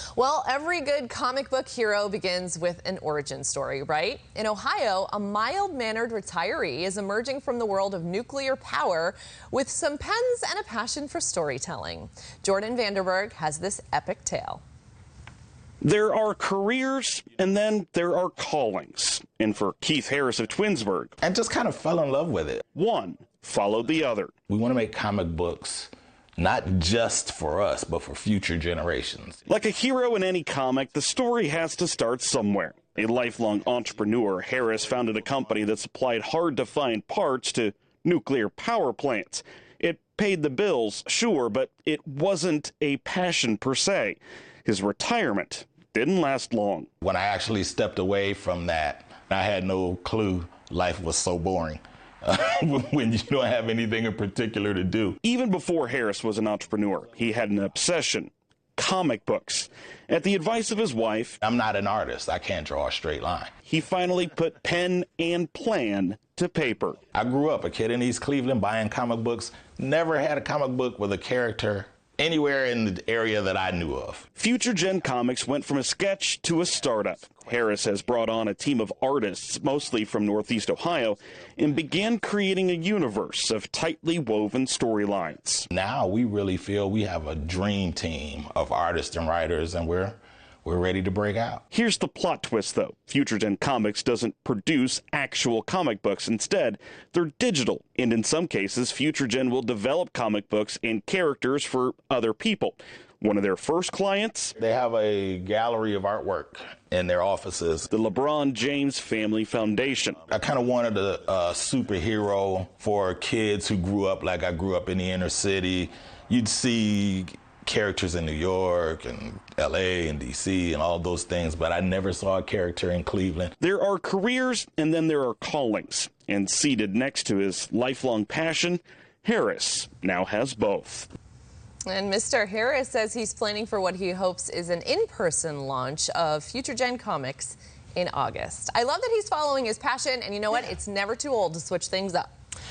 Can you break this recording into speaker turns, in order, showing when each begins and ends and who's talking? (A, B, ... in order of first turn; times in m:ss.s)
0:00.1-0:14.6 A
0:15.8-0:21.2 B
0:21.2-0:22.6 C
0:22.7-0:24.3 B
0:24.5-0:29.4 C
0:29.5-0:46.9 B
0:47.0-0:55.2 C
0:55.2-1:01.4 B
1:01.4-1:03.5 C
1:03.6-1:07.0 B
1:07.1-1:14.2 C
1:14.4-1:25.7 B
1:25.7-1:31.6 C
1:31.7-1:44.5 B
1:44.6-1:47.9 C
1:47.9-1:50.3 B
1:50.3-2:03.5 C
2:03.6-2:11.1 B
2:11.9-2:22.3 A